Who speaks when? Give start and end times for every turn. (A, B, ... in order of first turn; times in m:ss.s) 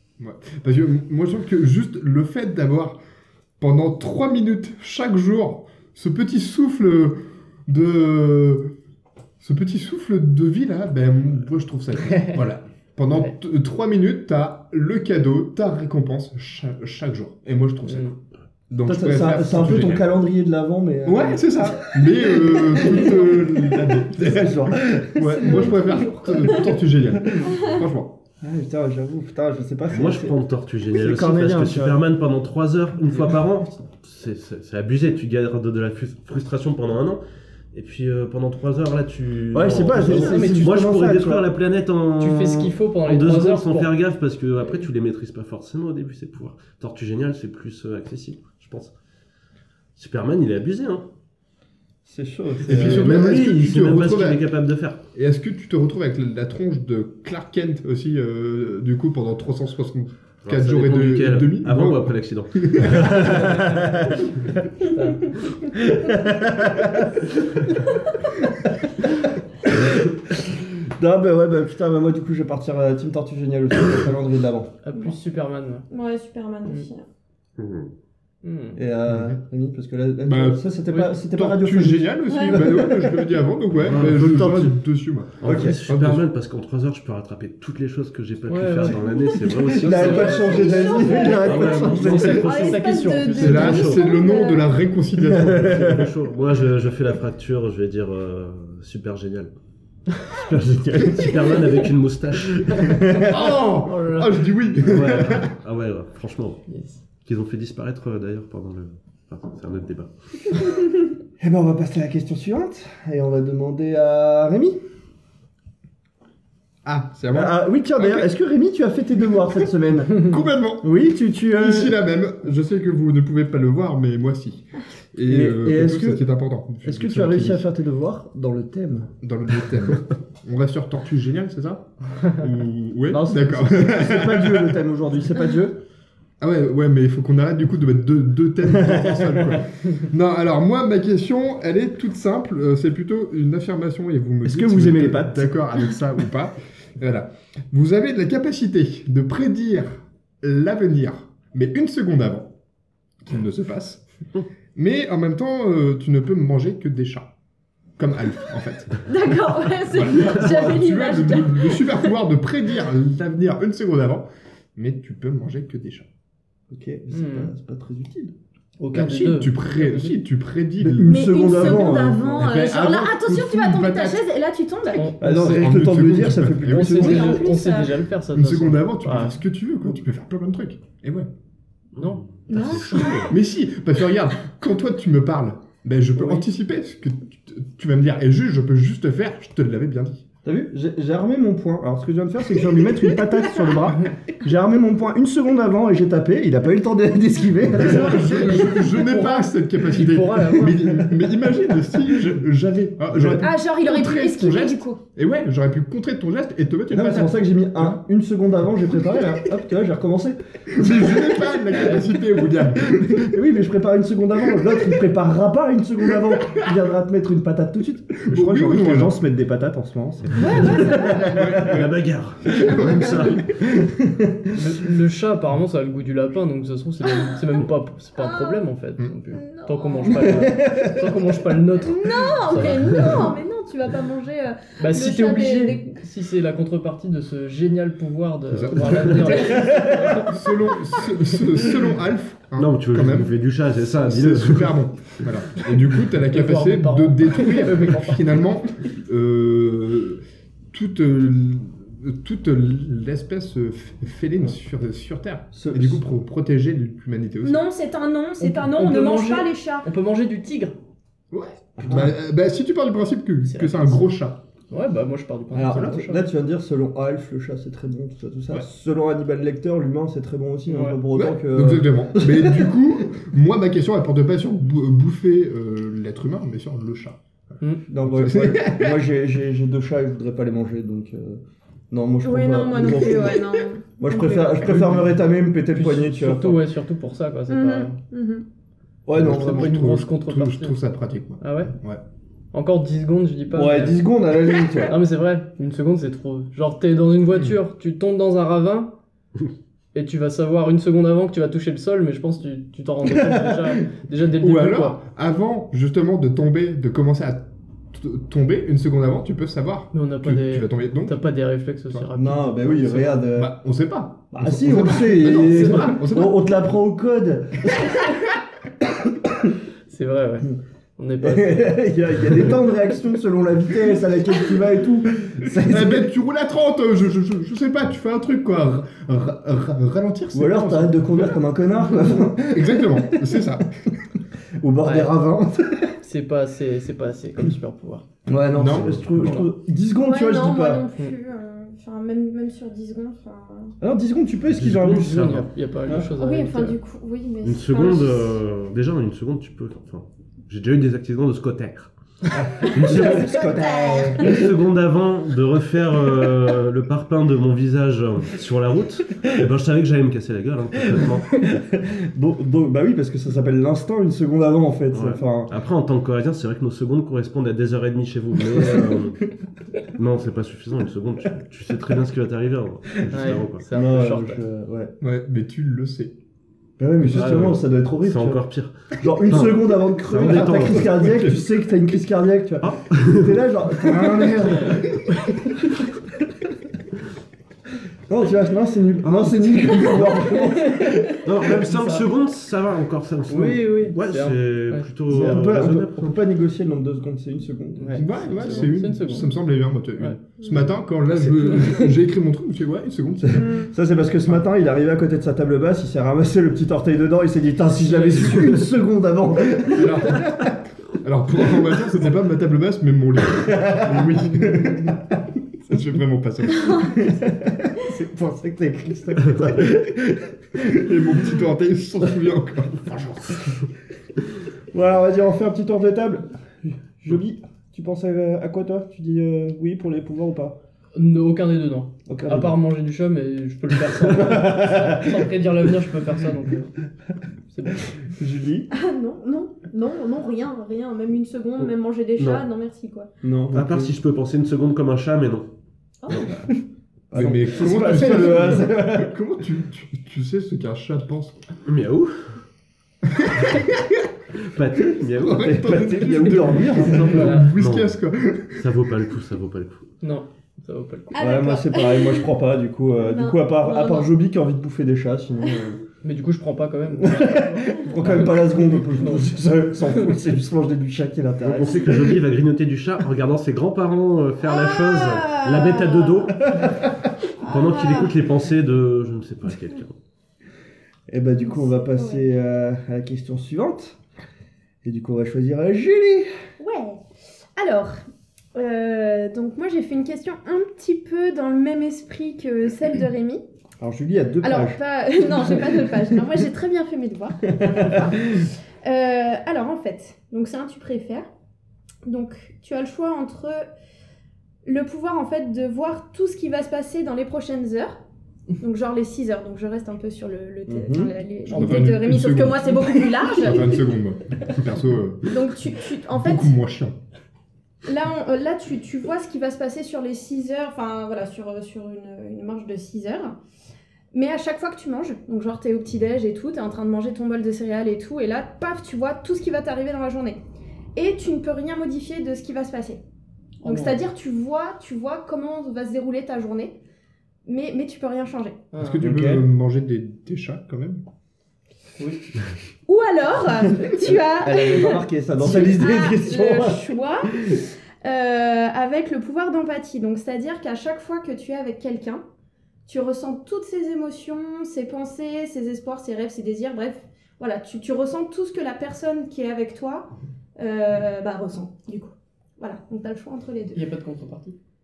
0:00.2-0:03.0 A
0:03.6-0:08.7 A
0:09.4-0:18.2 A
0:17.8-0:18.2 B
0:18.7-0:20.2 A
0:18.8-0:25.8 C
0:21.1-0:28.2 A
0:25.2-0:26.8 D
0:27.4-0:27.7 D
0:28.4-0:30.4 C
0:29.9-0:37.2 E
0:30.9-0:32.0 C
0:37.7-0:48.9 E
0:39.5-0:41.4 C
0:40.0-0:40.7 B
0:42.2-0:43.9 B
0:50.0-0:51.1 E
0:52.0-0:53.2 C
0:52.7-0:54.4 A
0:52.7-0:55.0 E
0:55.2-1:03.3 A
1:00.4-1:03.6 E
1:03.1-1:04.3 C
1:04.9-1:05.4 B
1:05.7-1:07.2 C
1:09.7-1:14.7 C
1:14.8-1:15.9 B
1:15.9-1:17.1 D
1:17.6-1:17.9 E
1:18.4-1:18.8 B
1:18.8-1:24.8 C
1:19.1-1:19.4 A
1:20.3-1:26.2 A
1:22.3-1:22.6 D
1:23.8-1:24.4 E
1:25.4-1:32.9 E
1:25.4-1:25.8 C
1:28.5-1:29.1 B
1:29.0-1:34.8 D
1:29.6-1:32.5 C
1:29.8-1:34.0 B
1:33.3-1:36.0 A
1:33.6-1:34.0 E
1:35.2-1:36.1 C
1:35.5-1:39.5 E
1:40.3-1:43.0 E
1:40.9-1:41.3 C
1:42.8-1:43.4 C
1:43.2-1:45.5 A
1:43.3-1:44.4 B
1:44.8-1:46.6 E
1:46.7-1:47.0 B
1:47.2-1:50.7 E
1:51.4-1:54.8 C
1:56.8-1:58.3 A
1:57.3-2:02.0 C
2:00.1-2:00.9 A
2:01.5-2:07.6 A
2:05.3-2:06.3 C
2:06.8-2:09.1 C
2:09.2-2:14.8 A
2:13.1-2:15.8 C
2:16.4-2:32.5 A
2:18.7-2:19.6 C
2:24.4-2:25.8 C
2:33.2-2:34.0 A
2:34.8-2:37.3 A
2:38.0-2:46.1 A
2:39.1-2:42.1 D
2:46.7-2:48.3 C
2:47.1-2:47.5 B
2:48.8-2:50.2 B
2:48.9-2:54.2 A
2:50.8-2:52.2 C
2:51.1-2:55.2 D
2:54.9-2:55.8 B
2:55.2-2:57.6 C
2:55.4-2:57.4 A
2:56.6-2:59.4 B
2:56.9-2:58.0 D
2:58.3-3:01.3 A
3:02.0-3:02.2 B
3:02.0-3:03.3 E
3:02.5-3:03.4 D
3:02.7-3:10.2 A
3:06.2-3:06.5 B
3:10.4-3:18.6 C
3:17.7-3:28.0 A
3:17.7-3:21.1 B
3:23.1-3:23.5 C
3:23.4-3:25.0 D
3:26.9-3:31.6 C
3:30.7-3:33.4 A
3:31.8-3:32.1 B
3:32.8-3:41.8 C
3:38.2-3:39.2 A
3:40.4-3:41.3 D
3:40.8-3:42.0 A
3:41.6-3:43.5 E
3:42.5-3:43.5 A
3:42.5-3:43.0 C
3:43.6-3:44.5 C
3:44.5-3:53.2 B
3:47.1-3:47.4 D
3:48.2-3:48.6 D
3:49.3-3:50.6 D
3:50.1-3:51.1 C
3:51.8-3:56.0 D
3:54.8-4:00.5 B
3:58.5-4:03.3 A
3:59.6-3:59.9 C
4:02.6-4:05.2 E
4:04.1-4:17.6 A
4:06.3-4:08.3 B
4:15.5-4:16.0 C
4:17.4-4:19.9 D
4:18.4-4:20.8 B
4:21.3-4:24.4 A
4:21.8-4:22.1 C
4:23.4-4:24.1 B
4:24.7-4:26.2 B
4:25.5-4:32.7 C
4:30.7-4:31.0 B
4:31.1-4:39.0 A
4:37.9-4:46.6 C
4:42.2-4:44.7 D
4:45.7-4:48.0 B
4:47.5-4:48.4 D
4:49.1-4:49.8 C
4:49.1-4:52.0 A
4:49.2-4:50.8 B
4:51.4-4:51.8 B
4:52.5-4:54.0 B
4:53.5-4:55.0 C
4:54.8-4:58.9 B
4:57.3-4:57.6 A
4:59.9-5:05.0 B
5:03.0-5:03.7 C
5:04.4-5:11.2 A
5:09.9-5:13.1 B
5:12.2-5:13.6 C
5:13.2-5:16.5 A
5:14.3-5:18.2 C
5:15.2-5:16.0 B
5:19.9-5:21.8 B
5:21.2-5:26.1 C
5:25.6-5:31.3 A
5:30.3-5:33.5 C
5:32.5-5:33.7 A
5:34.6-5:36.0 C
5:34.8-5:35.1 B
5:36.0-5:38.1 B
5:38.3-5:40.9 C
5:38.6-5:39.3 A
5:38.6-5:39.4 E
5:40.0-5:43.8 D
5:43.8-5:46.1 C
5:44.5-5:45.5 E
5:44.9-5:46.8 B
5:46.1-5:48.4 D
5:47.4-5:51.9 E
5:52.4-5:54.5 C
5:52.5-5:53.4 E
5:53.0-5:54.2 D
5:54.2-6:01.4 E
6:01.4-6:05.5 C
6:04.9-6:09.3 E
6:08.6-6:09.0 C
6:09.8-6:13.6 E
6:13.1-6:14.4 B
6:13.2-6:14.9 C
6:15.0-6:16.2 A
6:16.8-6:18.4 C
6:17.1-6:21.2 E
6:19.0-6:25.0 C
6:22.6-6:23.4 E
6:24.0-6:24.7 A
6:28.1-6:31.7 C
6:30.1-6:32.0 B
6:31.2-6:36.2 E
6:33.3-6:35.6 B
6:35.1-6:38.7 C
6:37.8-6:39.3 B
6:38.0-6:43.6 A
6:41.6-6:41.9 B
6:43.2-6:50.3 C
6:43.4-6:43.7 D
6:49.7-6:55.0 A
6:53.3-6:55.2 C
6:55.7-6:56.9 A
6:56.7-7:01.0 C
7:00.7-7:03.5 A
7:04.7-7:10.6 C
7:11.0-7:16.7 B
7:12.1-7:12.6 C
7:13.9-7:15.2 C
7:17.5-7:17.9 B
7:18.2-7:18.7 C
7:18.7-7:23.1 D
7:21.6-7:22.4 E
7:23.2-7:24.0 C
7:23.5-7:25.5 E
7:26.0-7:26.4 D
7:27.1-7:31.4 A
7:27.1-7:29.2 C
7:27.2-7:27.5 B
7:31.7-7:32.3 E
7:33.1-7:34.0 A
7:34.4-7:35.7 E
7:35.2-7:38.6 A
7:35.2-7:37.4 C
7:37.0-7:37.5 B
7:37.4-7:38.0 E
7:38.6-7:39.9 E
7:40.0-7:41.2 B
7:41.1-7:42.3 D
7:41.2-7:45.8 C
7:43.0-7:44.1 D
7:46.0-7:49.3 B
7:46.9-7:52.2 C
7:51.4-7:56.9 E
7:54.4-7:56.5 D
7:57.4-7:58.2 D
7:57.4-8:00.0 E
8:01.1-8:04.0 C
8:01.4-8:02.3 D
8:04.8-8:06.3 C
8:06.6-8:07.0 D
8:07.6-8:08.0 D
8:08.6-8:13.4 D
8:13.8-8:14.8 C
8:14.4-8:21.3 D
8:15.4-8:16.2 C
8:17.6-8:18.5 C
8:22.0-8:23.7 D
8:24.6-8:28.0 D
8:28.6-8:33.7 D
8:30.7-8:31.1 C
8:31.5-8:31.9 B
8:31.5-8:32.7 A
8:32.6-8:33.1 B
8:33.2-8:35.4 A
8:35.3-8:36.6 D
8:36.1-8:37.0 A
8:37.8-8:43.4 D
8:44.1-8:50.4 D
8:51.0-8:53.0 D
8:53.6-8:54.0 B
8:53.6-8:56.8 D
8:57.4-8:58.7 D
8:58.7-8:59.1 B
8:58.8-9:01.0 A
8:59.0-8:59.5 C
9:02.9-9:12.2 D
9:04.0-9:07.6 C
9:12.9-9:23.8 D
9:23.7-9:24.6 B